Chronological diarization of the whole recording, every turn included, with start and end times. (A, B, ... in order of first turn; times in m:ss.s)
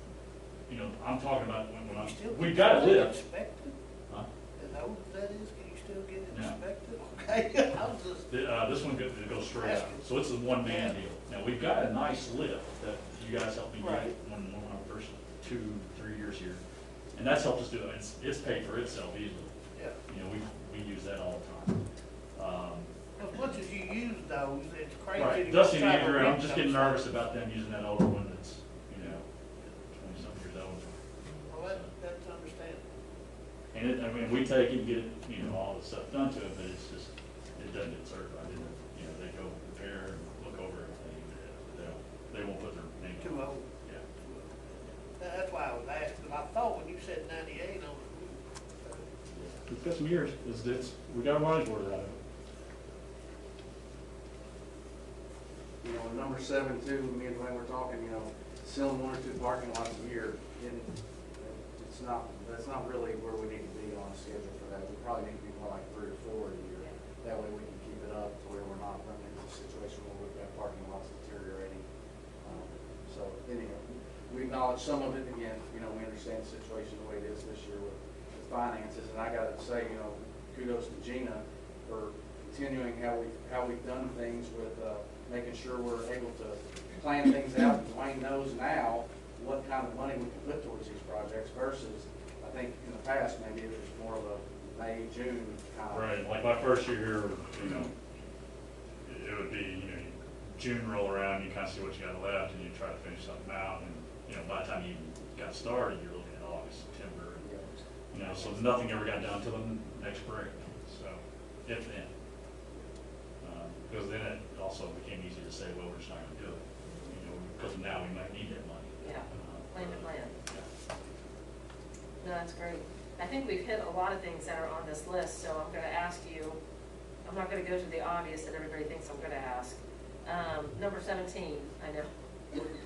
0:00.7-0:03.2 A
0:01.9-0:03.7 B
0:04.6-0:08.3 B
0:06.3-0:06.6 A
0:08.3-0:16.6 A
0:09.5-0:11.0 B
0:13.8-0:14.1 B
0:17.2-0:21.8 A
0:22.4-0:22.9 A
0:23.2-0:27.1 B
0:25.1-0:29.2 A
0:29.8-0:31.0 A
0:31.4-0:32.9 B
0:31.6-0:31.9 A
0:33.7-0:44.0 A
0:43.2-0:43.7 B
0:44.2-0:44.6 B
0:45.1-0:49.1 B
0:49.3-0:52.2 A
0:55.8-1:11.8 C
1:12.4-1:36.1 C
1:35.9-1:37.9 A
1:39.0-1:47.4 A
1:47.4-1:47.7 C
1:48.1-1:52.1 A
1:53.4-2:00.7 A
1:56.8-1:57.1 D
1:59.0-2:00.3 D
2:02.2-2:06.6 D
2:07.2-2:12.1 D